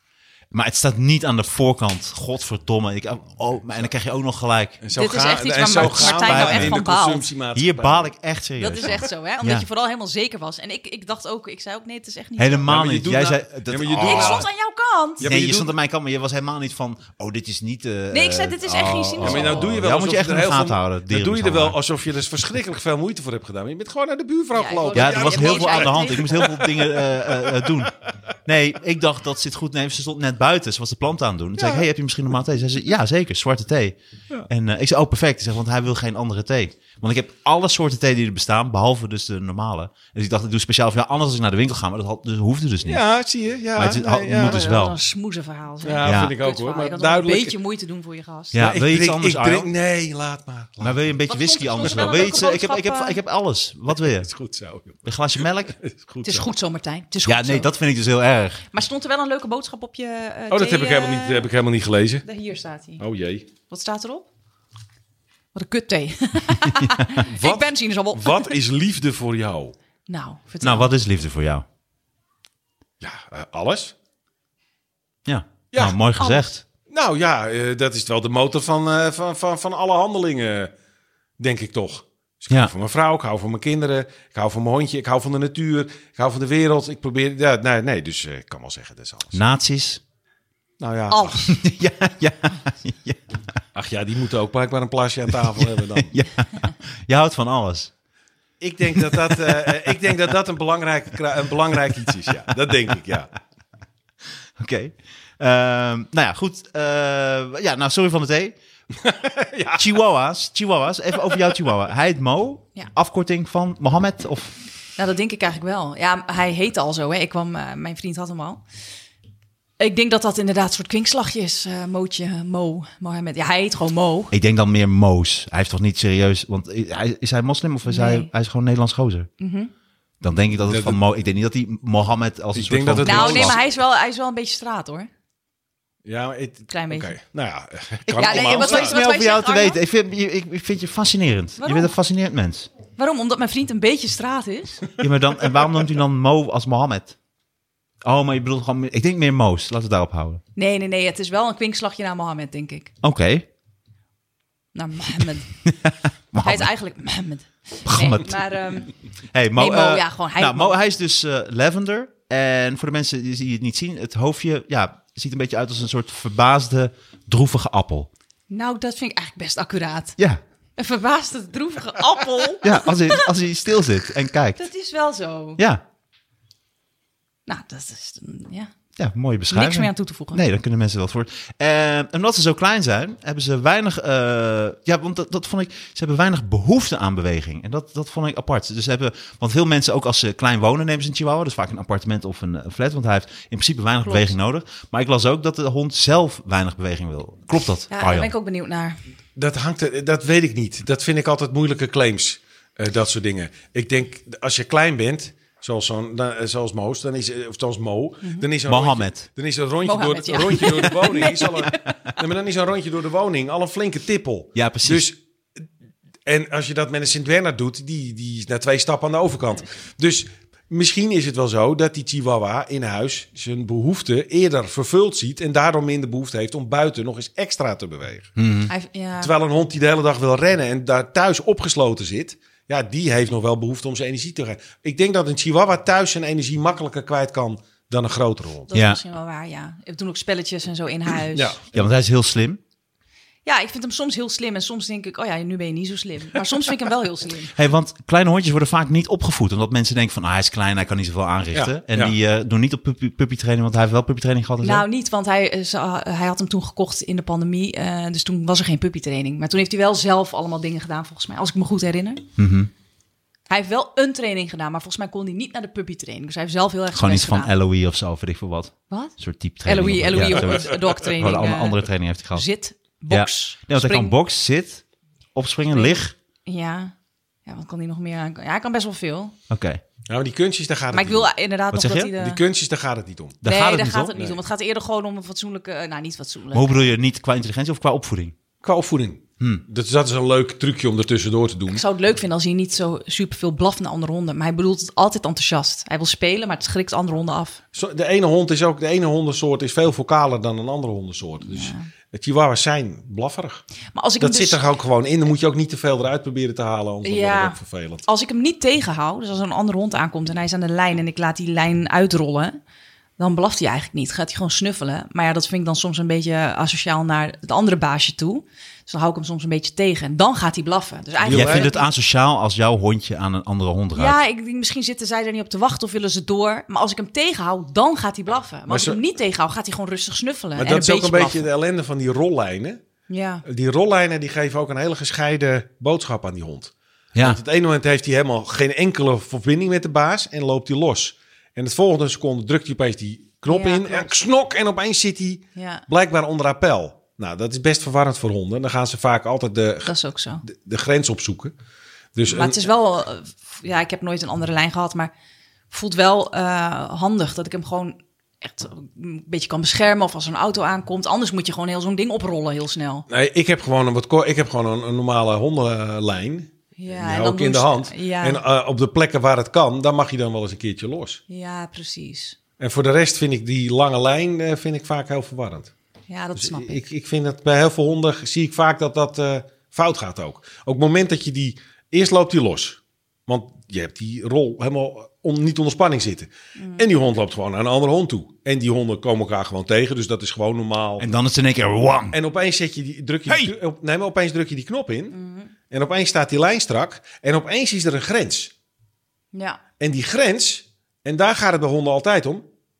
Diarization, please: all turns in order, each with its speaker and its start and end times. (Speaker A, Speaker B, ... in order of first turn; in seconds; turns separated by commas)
Speaker A: 0.5-4.8, Speaker B: 4.8-8.1, Speaker C: 4.9-7.3, Speaker A: 5.7-6.8, Speaker A: 7.5-9.7, Speaker C: 8.6-12.7, Speaker A: 12.4-14.5, Speaker B: 12.7-14.5, Speaker C: 14.0-15.3, Speaker B: 15.2-15.7, Speaker A: 15.2-21.8, Speaker C: 18.1-19.8, Speaker B: 19.2-27.9, Speaker C: 24.5-26.6, Speaker A: 24.9-27.9, Speaker A: 28.4-34.0, Speaker B: 31.6-31.9, Speaker A: 34.5-43.0, Speaker B: 42.9-44.6, Speaker A: 43.7-45.0, Speaker C: 44.3-48.7, Speaker B: 45.8-47.5, Speaker A: 46.0-46.3, Speaker A: 48.5-49.7, Speaker B: 48.5-51.0, Speaker A: 50.8-54.3, Speaker C: 51.3-53.2, Speaker B: 51.8-52.5, Speaker B: 54.0-55.0, Speaker A: 55.0-55.8, Speaker B: 55.8-56.5, Speaker C: 56.2-57.7, Speaker A: 57.2-58.6, Speaker C: 58.7-61.5, Speaker B: 60.5-62.2, Speaker C: 62.2-63.0, Speaker B: 63.0-63.5, Speaker C: 63.7-64.2, Speaker C: 65.5-68.6, Speaker B: 67.2-69.7, Speaker C: 70.1-70.9, Speaker A: 70.6-71.6, Speaker B: 73.0-73.9, Speaker A: 75.2-76.6, Speaker B: 75.7-76.0, Speaker C: 76.2-76.5, Speaker B: 76.9-80.7, Speaker B: 81.4-89.4, Speaker A: 89.3-90.0, Speaker B: 90.8-91.5, Speaker C: 91.1-91.5, Speaker A: 91.5-93.4, Speaker B: 93.7-96.1, Speaker A: 95.3-97.9, Speaker B: 98.6-103.3, Speaker A: 98.9-99.7, Speaker A: 104.6-108.5, Speaker B: 109.0-109.9, Speaker A: 109.7-114.6, Speaker C: 115.0-118.6, Speaker C: 119.8-124.3, Speaker A: 124.3-129.3, Speaker C: 127.9-128.3, Speaker C: 129.4-129.7, Speaker A: 130.2-133.6, Speaker B: 130.7-130.9, Speaker B: 132.5-133.6, Speaker C: 133.0-135.1, Speaker B: 136.0-139.0, Speaker C: 136.7-137.2, Speaker A: 138.1-142.7, Speaker C: 138.2-139.8, Speaker C: 141.6-141.9, Speaker C: 142.9-144.9, Speaker A: 145.0-147.1, Speaker A: 148.0-150.4, Speaker C: 150.6-152.9, Speaker A: 153.0-153.5, Speaker C: 154.7-155.6, Speaker A: 155.7-156.7, Speaker C: 156.4-158.9, Speaker A: 157.8-158.4, Speaker A: 159.3-168.1, Speaker C: 159.6-160.8, Speaker C: 168.5-170.2, Speaker C: 170.8-173.3, Speaker A: 172.6-174.6, Speaker C: 174.6-175.6, Speaker A: 175.6-175.8, Speaker C: 177.5-178.7, Speaker A: 179.0-198.3, Speaker C: 179.5-180.4, Speaker C: 194.0-194.3, Speaker C: 197.9-199.0, Speaker B: 199.3-215.2, Speaker A: 208.6-209.2, Speaker C: 209.8-211.8, Speaker A: 214.5-215.1, Speaker B: 216.2-228.3, Speaker A: 228.4-228.7, Speaker C: 228.7-229.3, Speaker B: 229.2-238.7, Speaker C: 238.7-241.6, Speaker A: 238.7-239.0, Speaker B: 241.3-241.9, Speaker A: 241.7-242.6, Speaker C: 243.4-247.5, Speaker A: 247.5-254.8, Speaker B: 251.5-252.2, Speaker C: 254.6-262.2, Speaker A: 262.4-262.7, Speaker C: 263.5-267.5, Speaker A: 266.9-272.5, Speaker C: 268.9-274.1, Speaker A: 273.1-274.8, Speaker A: 275.3-276.1, Speaker C: 275.7-276.9, Speaker C: 277.4-279.3, Speaker A: 279.5-279.8, Speaker B: 280.1-281.3, Speaker C: 280.9-282.4, Speaker A: 281.7-282.1, Speaker B: 282.1-283.4, Speaker A: 283.4-284.1, Speaker C: 283.4-286.9, Speaker A: 286.5-288.3, Speaker B: 288.6-291.8, Speaker C: 291.7-297.6, Speaker B: 297.7-303.6, Speaker C: 301.4-301.9, Speaker C: 303.9-304.6, Speaker B: 304.2-308.0, Speaker C: 307.0-312.6, Speaker C: 313.2-321.9, Speaker B: 321.2-321.7, Speaker A: 321.3-324.2, Speaker C: 323.9-331.5, Speaker B: 328.7-329.0, Speaker B: 330.6-332.8, Speaker C: 333.1-333.4, Speaker B: 333.4-351.5, Speaker A: 337.1-337.4, Speaker C: 343.5-344.1, Speaker C: 345.6-345.8, Speaker C: 349.8-350.4, Speaker B: 352.1-352.6, Speaker C: 352.3-355.1, Speaker C: 355.7-363.0, Speaker B: 363.1-371.2, Speaker C: 366.8-368.4, Speaker C: 371.3-372.4, Speaker B: 372.6-375.7, Speaker C: 376.1-376.8, Speaker B: 376.4-391.1, Speaker C: 386.6-386.9, Speaker A: 391.0-392.1, Speaker B: 392.1-395.2, Speaker A: 393.3-393.5, Speaker C: 395.1-395.5, Speaker B: 395.7-398.5, Speaker C: 399.3-399.6, Speaker B: 399.8-402.4